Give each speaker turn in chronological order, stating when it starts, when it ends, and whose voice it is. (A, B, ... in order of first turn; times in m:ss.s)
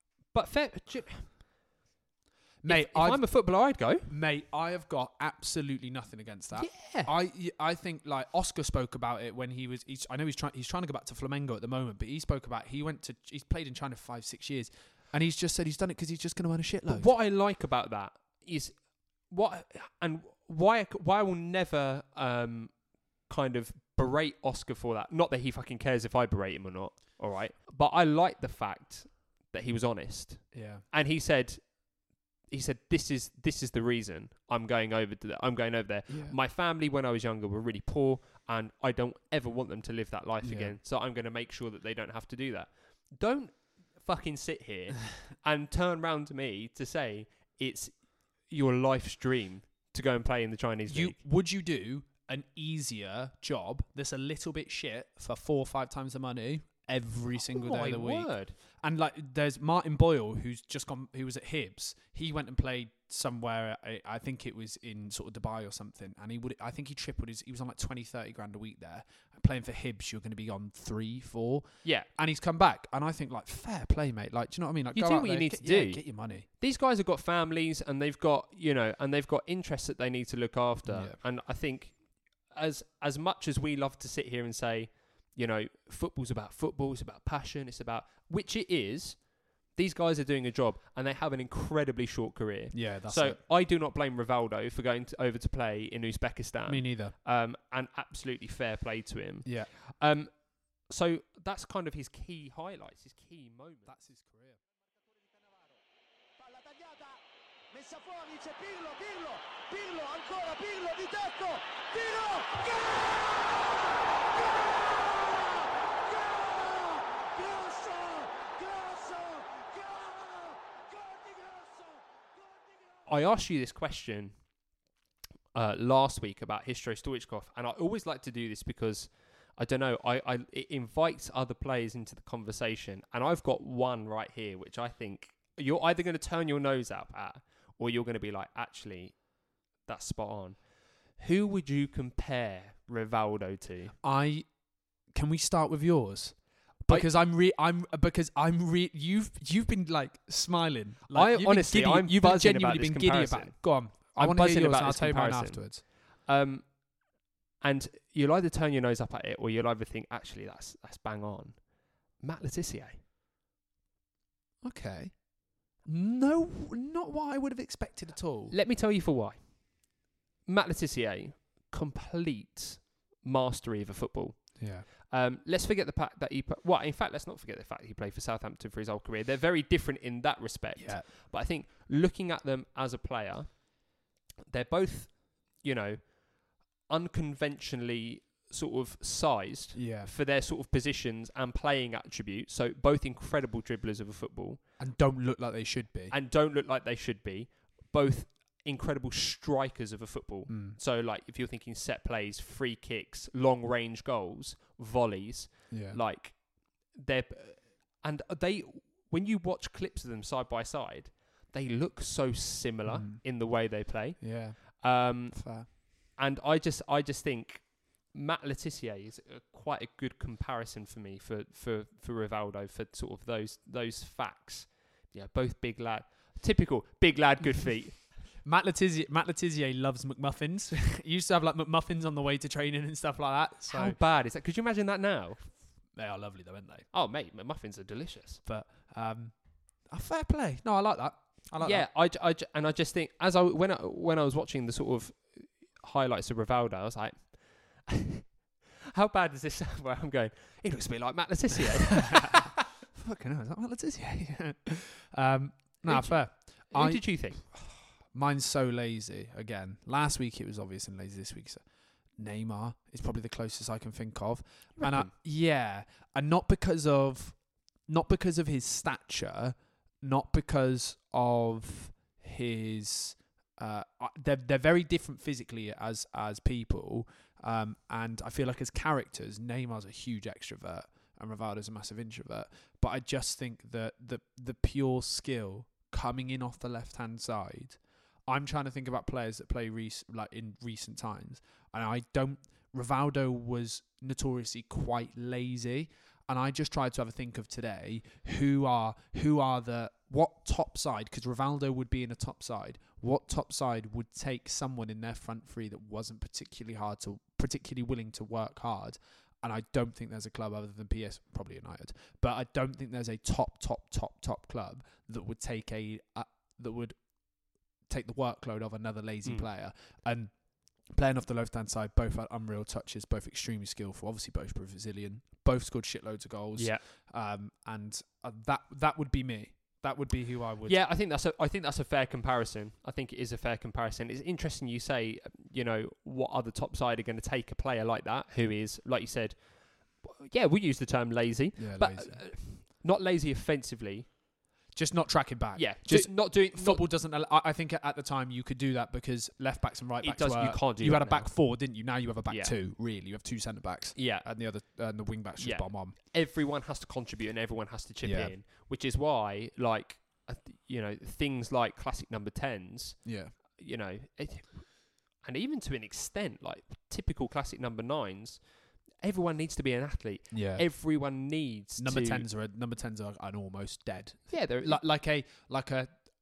0:00.3-0:01.4 A
0:02.6-0:03.4 B
0:02.7-0:04.1 A
0:04.1-0:17.1 B
0:06.5-0:07.1 A
0:16.9-0:31.9 A
0:30.5-0:30.8 B
0:32.5-0:51.2 A
0:36.1-0:36.4 B
0:40.4-0:40.8 B
0:50.9-1:16.4 B
0:57.5-0:58.5 A
1:14.9-1:40.3 A
1:20.8-1:21.2 B
1:32.7-1:33.4 B
1:36.7-1:37.1 B
1:39.4-1:39.7 B
1:40.8-1:43.9 A
1:43.9-1:44.6 B
1:45.2-1:45.8 C
1:46.4-2:03.0 C
2:03.0-2:04.4 A
2:05.5-2:19.2 A
2:19.8-2:20.6 A
2:21.1-2:23.9 A
2:24.0-2:24.5 B
2:25.1-2:35.8 B
2:31.1-2:36.8 A
2:37.6-2:43.0 A
2:44.6-2:48.5 B
2:48.5-3:14.6 A
2:54.6-2:54.9 B
3:00.8-3:01.1 B
3:09.7-3:10.1 B
3:14.8-3:16.1 B
3:16.1-3:48.1 A
3:20.5-3:20.8 B
3:25.7-3:26.0 B
3:32.8-3:33.2 B
3:34.2-3:35.7 B
3:48.4-3:54.0 B
3:53.7-3:55.4 A
3:55.9-3:56.9 B
3:56.9-3:58.4 A
3:58.4-3:59.3 B
3:59.8-4:01.9 B
4:01.6-4:12.6 A
4:12.0-4:21.6 B
4:15.8-4:17.4 A
4:22.2-5:17.0 B
4:24.8-4:25.1 A
5:17.9-5:30.8 B
5:26.6-5:26.8 A
5:30.6-5:44.1 A
5:41.6-5:42.2 B
5:44.7-5:56.0 B
5:45.6-5:46.8 A
5:50.0-5:51.3 A
5:52.3-5:52.5 A
5:53.9-5:54.3 A
5:55.4-6:12.2 A
5:58.0-5:58.3 B
6:03.0-6:03.3 B
6:10.3-6:10.6 B
6:11.8-6:16.0 B
6:14.3-6:14.8 A